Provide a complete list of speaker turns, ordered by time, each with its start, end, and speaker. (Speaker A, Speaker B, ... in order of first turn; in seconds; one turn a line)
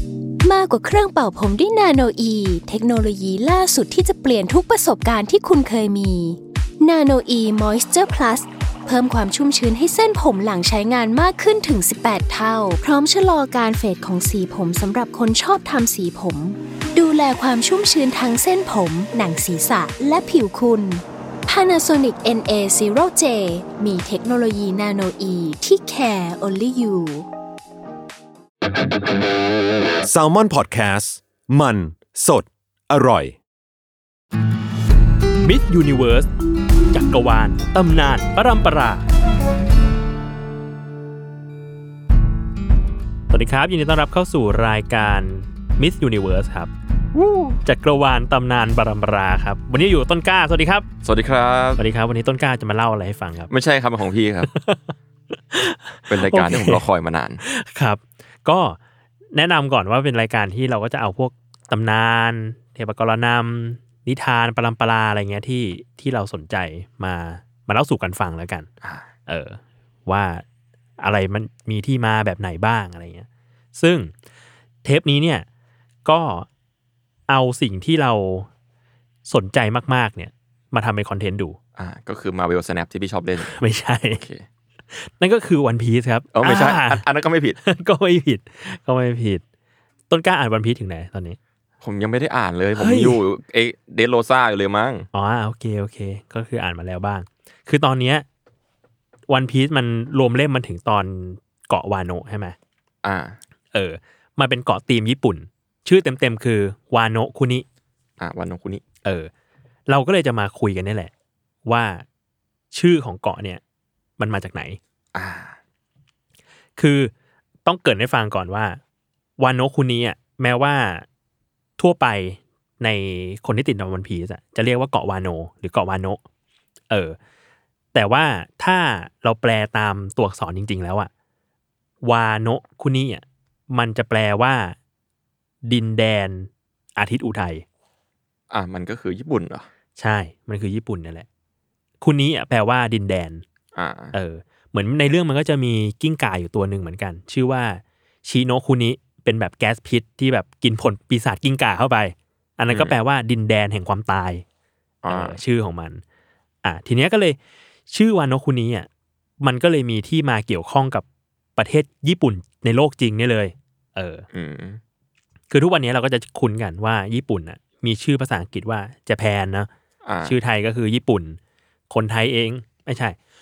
Speaker A: 0.4-27.3
Speaker B: 30.0-33.4
Speaker C: 35.4-36.3
Speaker C: 36.9-39.0
Speaker C: 43.3-46.7
Speaker D: 47.1-47.6
Speaker C: 47.6-50.9
Speaker D: 51.0-51.8
Speaker C: 51.8-53.5
Speaker D: 53.5-54.5
Speaker C: 54.5-54.8
Speaker C: 55.5-56.8
Speaker D: 56.1-57.4
Speaker C: 57.4-58.8
Speaker C: 59.3-68.7
Speaker C: 69.3-70.5
Speaker C: 71.0-74.1
Speaker C: 74.8-75.5
Speaker C: 76.0-76.5
Speaker C: 77.3-78.5
Speaker C: 79.3-81.6
Speaker D: 81.8-84.5
Speaker C: 83.4-84.2
Speaker C: 84.9-87.0
Speaker D: 86.3-87.6
Speaker C: 87.6-89.4
Speaker C: 90.1-91.4
Speaker D: 91.8-95.1
Speaker C: 92.8-93.2
Speaker C: 95.1-98.2
Speaker C: 99.3-102.6
Speaker D: 103.0-103.4
Speaker C: 103.7-107.7
Speaker D: 108.2-108.8
Speaker C: 109.0-109.3
Speaker C: 109.9-111.1
Speaker C: 111.7-112.1
Speaker C: 112.7-113.6
Speaker C: 114.2-114.8
Speaker D: 115.1-115.6
Speaker C: 116.8-117.1
Speaker C: 117.7-118.8
Speaker C: 119.4-121.1
Speaker C: 121.8-126.2
Speaker C: 126.9-127.2
Speaker C: 127.9-131.1
Speaker C: 132.0-134.8
Speaker C: 135.7-137.6
Speaker D: 138.5-139.7
Speaker C: 140.0-141.3
Speaker C: 142.0-143.4
Speaker D: 143.8-144.1
Speaker C: 144.1-154.4
Speaker D: 155.0-155.4
Speaker C: 155.1-156.0
Speaker C: 156.6-157.4
Speaker C: 157.9-158.9
Speaker C: 159.4-161.1
Speaker C: 161.6-164.2
Speaker D: 164.3-164.8
Speaker C: 165.5-169.7
Speaker D: 170.0-170.4
Speaker C: 170.2-171.4
Speaker C: 171.9-173.2